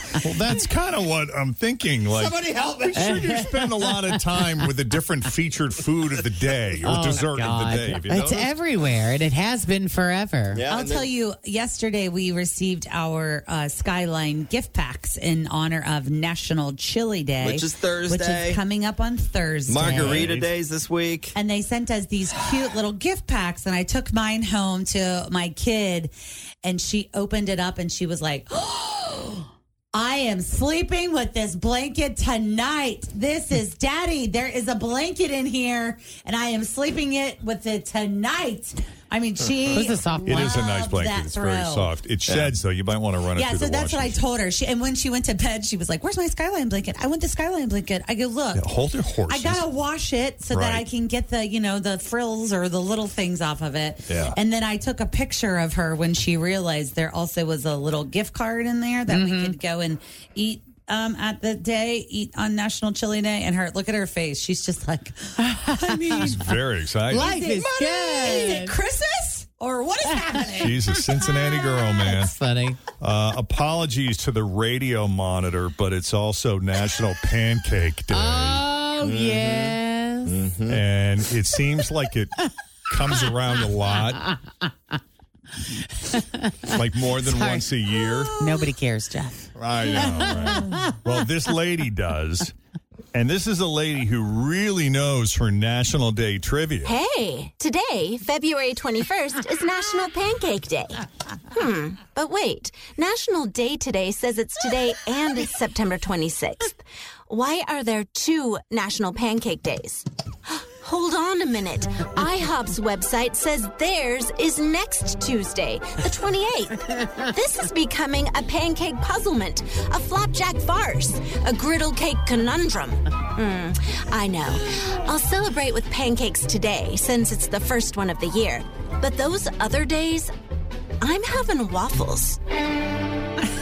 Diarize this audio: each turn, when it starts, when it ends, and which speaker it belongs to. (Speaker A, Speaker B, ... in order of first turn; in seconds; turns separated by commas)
Speaker A: 0.2-8.5, Speaker B: 2.1-3.2, Speaker C: 2.9-4.7, Speaker C: 6.8-10.7, Speaker B: 10.5-11.1, Speaker D: 10.7-20.3, Speaker B: 17.4-18.6, Speaker B: 19.7-21.4, Speaker A: 19.8-20.5, Speaker D: 21.4-42.0, Speaker C: 39.7-40.6, Speaker A: 40.3-44.2, Speaker B: 42.3-42.6, Speaker D: 43.3-66.2, Speaker A: 48.5-49.6, Speaker A: 50.5-50.9, Speaker A: 54.1-54.4, Speaker C: 59.1-59.6, Speaker C: 65.5-66.4, Speaker A: 66.2-67.3, Speaker D: 67.1-70.7, Speaker C: 67.1-68.8, Speaker C: 70.0-70.8, Speaker A: 70.6-72.3, Speaker C: 71.4-72.8, Speaker A: 73.0-78.7, Speaker C: 78.1-80.4, Speaker B: 79.0-80.8, Speaker A: 80.7-82.3, Speaker A: 82.9-84.2, Speaker C: 83.0-84.7, Speaker C: 86.0-87.7, Speaker A: 86.7-88.4, Speaker C: 88.2-91.3, Speaker A: 89.5-92.5, Speaker A: 93.1-97.0, Speaker E: 96.8-130.3, Speaker E: 131.0-132.4